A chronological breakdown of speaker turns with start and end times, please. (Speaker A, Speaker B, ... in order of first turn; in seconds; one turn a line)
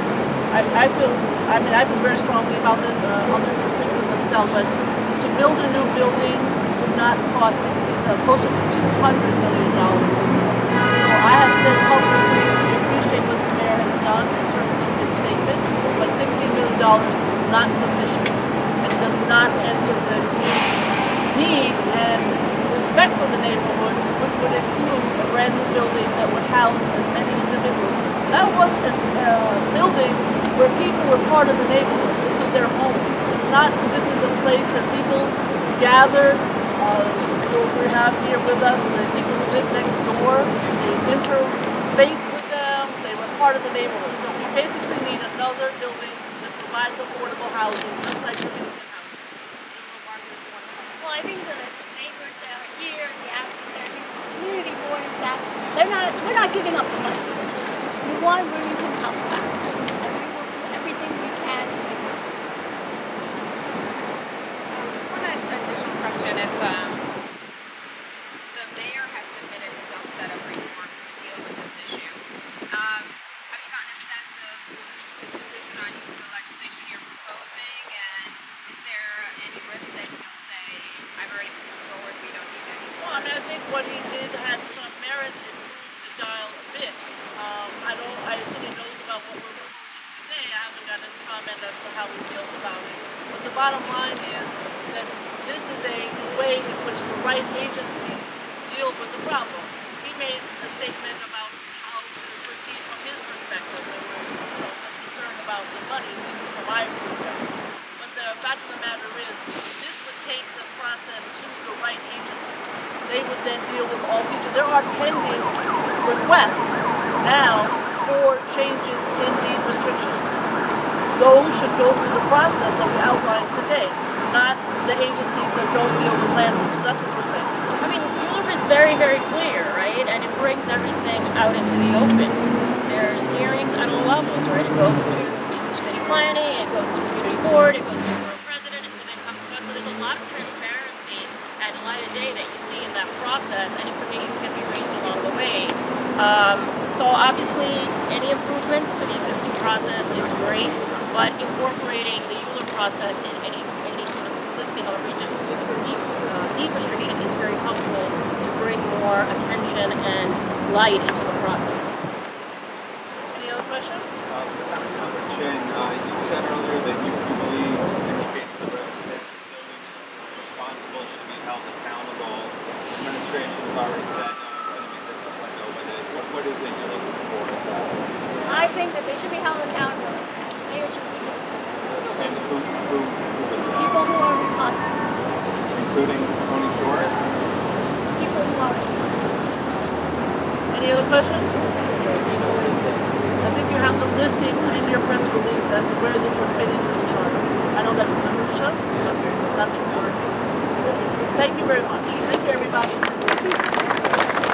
Speaker A: 0.5-10.2
Speaker A: 10.9-51.0
Speaker B: 51.0-57.4
Speaker B: 58.0-62.2
Speaker C: 64.8-67.1
Speaker C: 68.5-83.5
Speaker A: 83.0-120.4
Speaker A: 121.1-127.6
Speaker D: 127.8-162.0
Speaker A: 163.3-164.2
Speaker E: 164.3-178.0
Speaker B: 178.4-181.6
Speaker E: 182.1-184.0
Speaker B: 183.8-184.9
Speaker E: 185.7-187.2
Speaker B: 188.2-189.6
Speaker A: 190.7-191.6
Speaker A: 193.4-203.6